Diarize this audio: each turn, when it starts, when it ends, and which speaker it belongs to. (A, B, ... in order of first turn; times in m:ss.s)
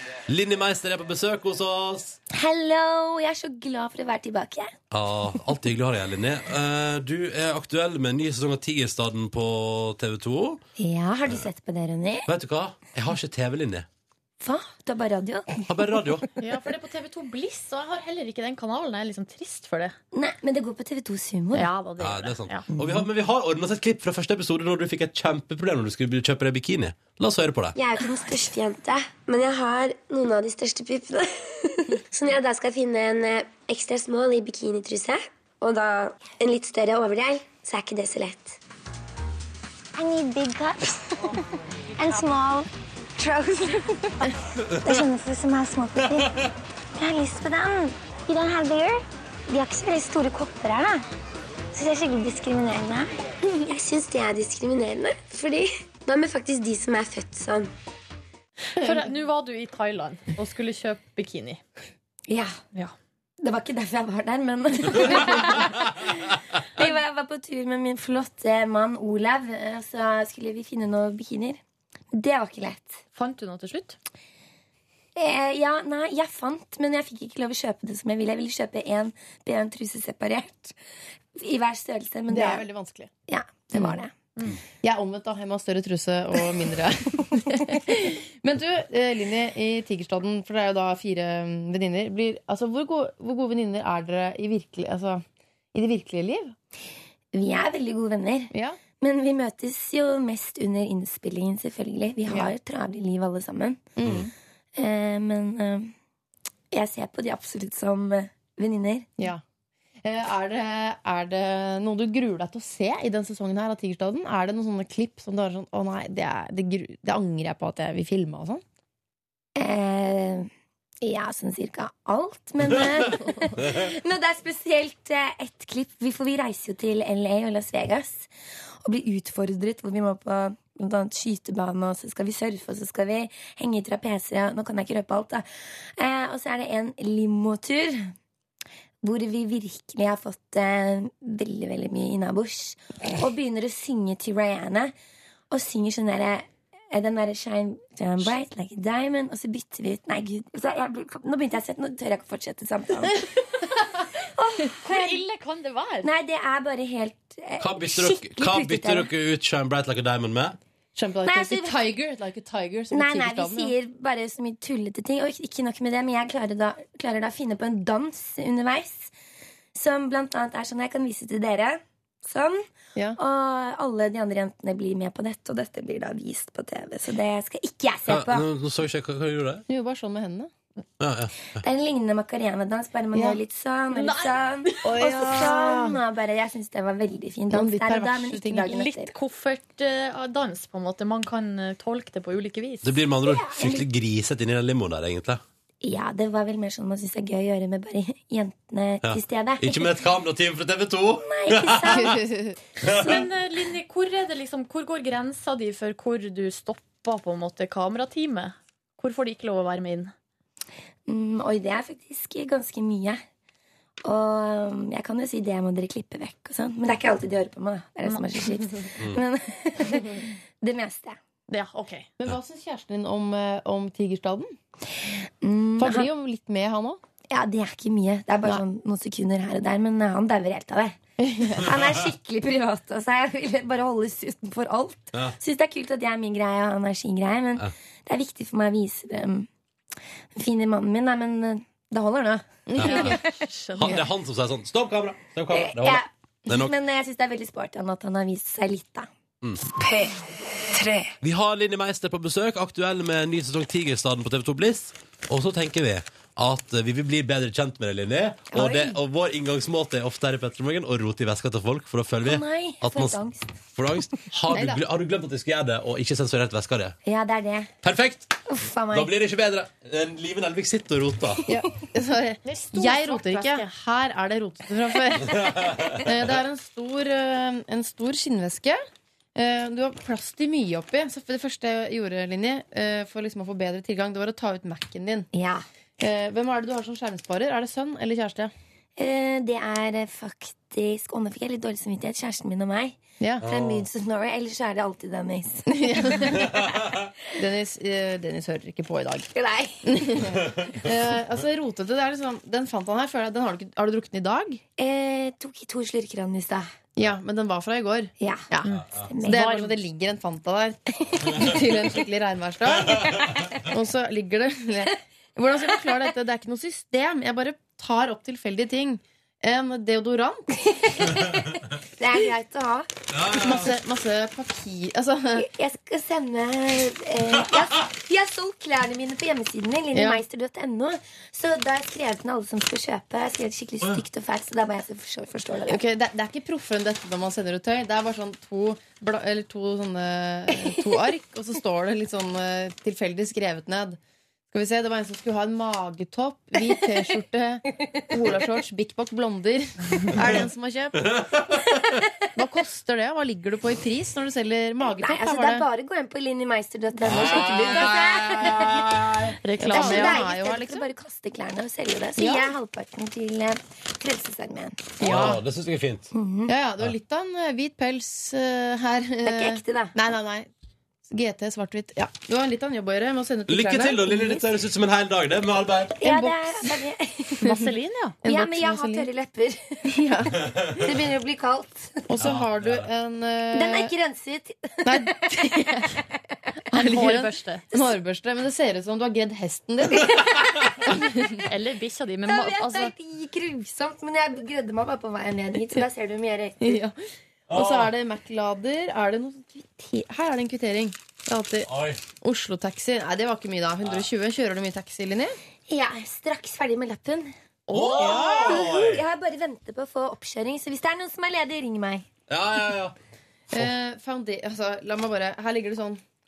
0:00.3-0:02.2 A
0:02.3-0:04.7 B
0:04.9-0:10.6 A
0:10.8-0:12.3 B
0:12.3-0:13.8 A
0:14.4-0:15.7 B
0:15.7-0:16.2 A
0:16.4-0:20.0 C
0:20.1-0:21.7 B
0:21.5-0:22.6 C
0:22.0-0:27.8 A
0:22.7-0:23.0 B
0:27.8-0:38.6 D
0:40.0-0:41.4 B
0:42.0-0:44.3 B
0:44.8-0:46.3 B
0:46.0-0:46.3 A
0:47.0-0:48.9 B
0:49.5-0:51.0 B
0:51.7-0:53.1 B
0:53.6-0:57.7 D
0:58.7-1:01.6 C
0:58.8-0:59.1 E
1:02.3-1:02.6 B
1:03.4-1:06.2 B
1:06.8-1:11.6 B
1:12.1-1:13.0 B
1:13.1-1:14.0 C
1:15.2-1:20.8 B
1:21.4-1:22.6 B
1:22.3-1:23.1 E
1:23.3-1:24.1 B
1:24.8-1:36.5 E
1:37.3-1:43.9 B
1:38.5-1:38.8 E
1:42.3-1:42.5 E
1:44.0-1:44.3 E
1:44.8-1:45.9 B
1:46.7-1:49.1 B
1:50.0-1:58.6 E
1:59.6-2:00.5 B
2:01.0-2:08.3 B
2:08.8-2:15.4 B
2:16.0-2:18.1 B
2:19.0-2:24.9 B
2:25.5-2:33.3 B
2:34.2-2:35.2 B
2:34.8-2:36.1 C
2:36.0-2:39.1 B
2:37.6-2:40.6 A
2:40.9-2:43.7 E
2:41.2-2:41.9 B
2:42.9-2:49.1 B
2:49.7-2:52.6 B
2:53.2-2:58.5 B
2:58.1-2:59.6 A
2:59.7-3:00.5 E
3:01.0-3:01.5 A
3:01.6-3:09.1 B
3:03.1-3:03.4 E
3:03.9-3:05.3 C
3:04.8-3:06.0 E
3:07.5-3:08.7 E
3:08.6-3:12.9 C
3:12.8-3:15.4 A
3:13.2-3:13.9 B
3:15.8-3:19.9 B
3:19.0-3:22.1 A
3:21.2-3:22.2 B
3:21.9-3:22.6 E
3:22.8-3:23.2 A
3:23.0-3:30.1 C
3:31.1-3:33.2 B
3:34.0-3:41.2 B
3:38.0-3:38.5 C
3:41.5-3:42.1 C
3:42.2-3:44.5 E
3:45.4-3:46.1 B
3:45.8-3:47.0 E
3:47.3-3:51.0 B
3:51.2-3:51.7 E
3:51.6-3:59.5 B
4:00.3-4:03.2 B
4:02.7-4:03.2 E
4:02.8-4:03.2 A
4:02.8-4:03.9 C
4:03.8-4:06.7 A
4:05.5-4:09.1 B
4:09.7-4:10.1 B
4:10.7-4:11.1 B
4:11.2-4:23.2 A
4:18.5-4:19.0 B
4:22.2-4:23.6 B
4:23.8-4:27.0 A
4:24.5-4:24.8 E
4:27.0-4:27.7 B
4:27.8-4:28.4 A
4:28.4-4:29.1 B
4:28.9-4:31.4 A
4:31.5-4:38.8 E
4:32.4-4:33.7 C
4:35.4-4:36.0 A
4:39.3-4:45.3 E
4:45.3-4:45.6 B
4:46.0-4:48.5 E
4:49.0-4:56.5 B
4:53.2-4:53.5 E
4:53.4-4:53.9 A
4:55.7-4:56.5 E
4:57.4-4:59.3 E
4:59.3-5:00.3 B
4:59.8-5:04.6 E
5:04.8-5:06.7 B
5:07.0-5:08.7 E
5:08.2-5:08.5 B
5:08.6-5:09.6 C
5:09.0-5:09.7 B
5:09.2-5:20.5 E
5:20.5-5:22.9 B
5:23.1-5:23.7 A
5:23.3-5:25.5 E
5:25.4-5:35.8 B
5:29.9-5:30.2 E
5:35.7-5:44.0 E
5:44.5-5:51.1 E
5:52.4-5:55.7 E
5:54.9-5:58.9 B
5:57.0-5:59.3 A
5:59.4-6:00.2 C
5:59.6-6:00.9 E
5:59.7-6:05.4 B
6:02.2-6:02.5 E
6:05.0-6:05.4 E
6:05.0-6:06.1 A
6:06.1-6:06.5 B
6:06.5-6:10.5 E
6:09.2-6:10.0 B
6:11.1-6:14.5 E
6:13.5-6:16.0 A
6:16.0-6:17.6 B
6:16.0-6:16.7 E
6:17.4-6:19.1 E
6:17.4-6:18.2 C
6:18.2-6:22.2 B
6:19.9-6:20.4 E
6:22.1-6:23.9 E
6:22.2-6:22.8 A
6:23.5-6:26.0 B
6:24.8-6:25.9 E
6:26.7-6:30.3 E
6:26.8-6:27.6 C
6:30.8-6:31.4 E
6:31.4-6:32.9 C
6:32.2-6:36.8 B
6:36.6-6:37.0 E
6:37.5-6:37.9 A
6:37.5-6:45.4 E
6:41.7-6:42.0 A
6:45.7-6:52.0 B
6:47.7-6:48.6 E
6:47.7-6:49.0 A
6:52.3-6:52.9 A
6:53.5-6:56.0 E